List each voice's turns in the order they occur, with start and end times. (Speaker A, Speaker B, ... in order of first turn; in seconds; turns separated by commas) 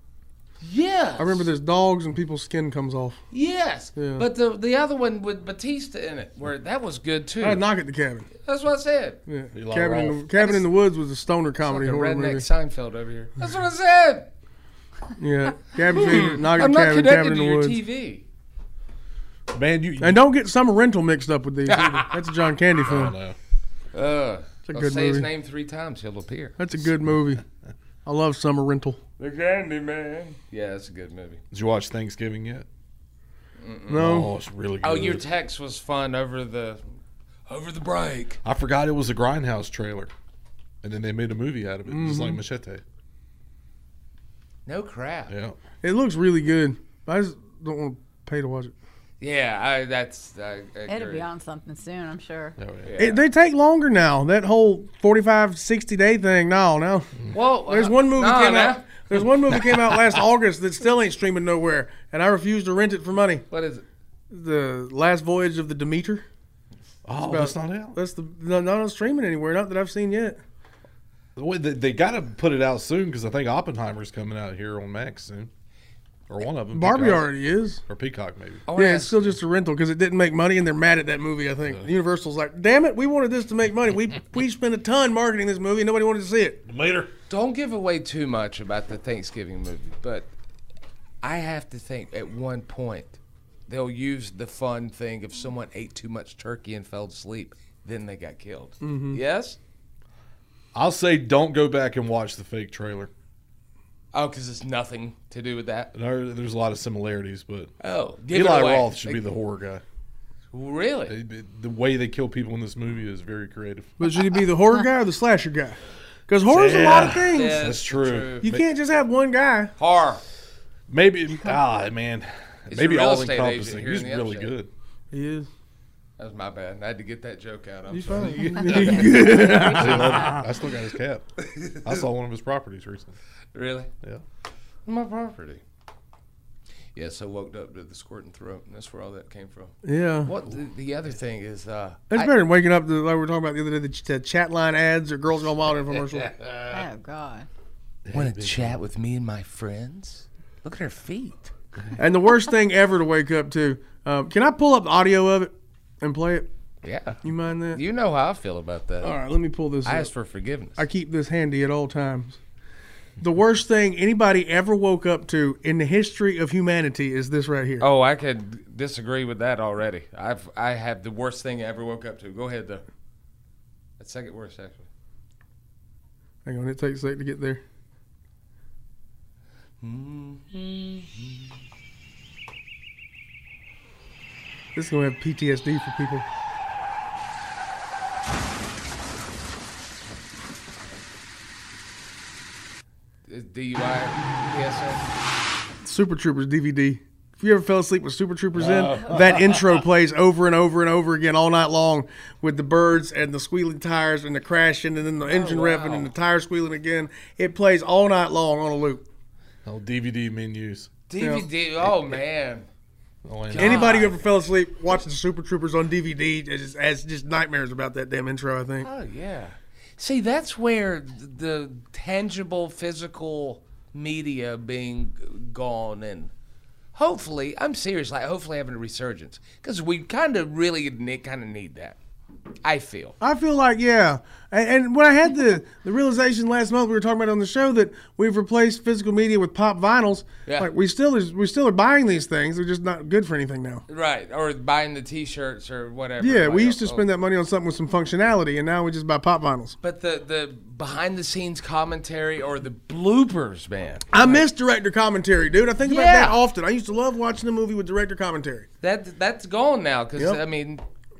Speaker A: 0.6-1.5, Speaker B: 1.2-3.2, Speaker A: 3.3-7.6, Speaker B: 4.0-4.2, Speaker B: 7.4-8.3, Speaker A: 8.4-9.2, Speaker B: 9.3-12.5, Speaker C: 9.5-10.2, Speaker A: 10.4-10.7, Speaker A: 11.7-14.3, Speaker B: 15.2-17.8, Speaker A: 15.9-18.2, Speaker C: 19.5-20.3, Speaker B: 20.0-23.1, Speaker A: 21.7-22.2, Speaker C: 22.8-23.4, Speaker A: 23.9-26.6, Speaker B: 24.7-25.3, Speaker B: 26.6-27.4, Speaker B: 28.1-29.0, Speaker A: 29.2-31.4, Speaker C: 31.5-32.7, Speaker A: 33.6-34.0, Speaker B: 33.9-34.3, Speaker C: 33.9-35.3, Speaker A: 34.8-36.8, Speaker A: 37.5-38.4, Speaker C: 38.4-40.1, Speaker C: 40.8-42.8, Speaker B: 41.9-42.4, Speaker A: 44.7-45.3, Speaker C: 45.3-45.6, Speaker B: 45.8-48.7, Speaker A: 49.2-51.3, Speaker D: 50.9-52.6, Speaker C: 52.6-53.0, Speaker A: 52.9-53.2, Speaker B: 53.0-57.1, Speaker A: 57.3-59.1, Speaker B: 57.7-63.4, Speaker A: 63.5-63.8, Speaker B: 64.3-66.2, Speaker C: 67.0-68.0, Speaker B: 67.2-70.4, Speaker C: 71.4-75.5, Speaker C: 76.3-77.3, Speaker B: 76.7-77.8, Speaker C: 77.9-78.6, Speaker A: 78.7-79.4, Speaker B: 78.7-86.6, Speaker C: 86.7-87.1, Speaker A: 87.3-90.3, Speaker A: 91.2-99.6, Speaker B: 98.8-99.2, Speaker C: 100.8-103.1, Speaker A: 104.1-105.9, Speaker C: 105.9-107.7, Speaker A: 107.8-109.3, Speaker C: 108.3-109.8, Speaker A: 110.5-111.2, Speaker C: 111.1-113.9, Speaker B: 114.0-117.5, Speaker C: 116.5-118.7, Speaker A: 117.3-118.5, Speaker B: 118.4-119.7, Speaker A: 119.8-120.2, Speaker C: 120.9-124.7, Speaker A: 122.7-124.5, Speaker B: 125.1-125.5, Speaker A: 126.2-130.4, Speaker B: 127.9-130.3, Speaker C: 128.1-131.2, Speaker A: 131.4-132.1, Speaker C: 131.8-133.2, Speaker A: 133.5-133.9, Speaker A: 134.9-135.6, Speaker A: 136.9-142.3, Speaker B: 139.8-140.3, Speaker B: 142.1-146.3, Speaker D: 146.7-147.5, Speaker C: 148.1-148.8, Speaker A: 148.1-151.5, Speaker B: 152.0-156.5, Speaker A: 156.8-157.2, Speaker B: 157.2-157.8, Speaker A: 157.7-159.2, Speaker B: 159.0-160.1, Speaker A: 159.8-160.8, Speaker B: 160.8-162.4, Speaker B: 163.2-167.9, Speaker A: 167.8-172.8, Speaker A: 174.0-174.9, Speaker B: 176.4-177.6, Speaker A: 179.8-181.5, Speaker B: 184.8-186.3, Speaker A: 193.3-195.1, Speaker B: 195.8-209.0, Speaker C: 198.6-199.8, Speaker A: 205.3-206.1, Speaker C: 209.7-211.0, Speaker A: 211.1-212.7, Speaker B: 211.2-211.5, Speaker C: 211.8-212.2, Speaker C: 213.2-214.1, Speaker A: 213.5-214.2, Speaker B: 213.6-218.9, Speaker A: 218.8-226.3, Speaker A: 226.9-232.0, Speaker A: 232.6-233.2, Speaker B: 233.2-243.8, Speaker A: 243.9-247.1, Speaker B: 246.2-249.8, Speaker A: 249.8-254.5, Speaker B: 254.1-258.7, Speaker A: 255.8-256.4, Speaker A: 258.8-260.8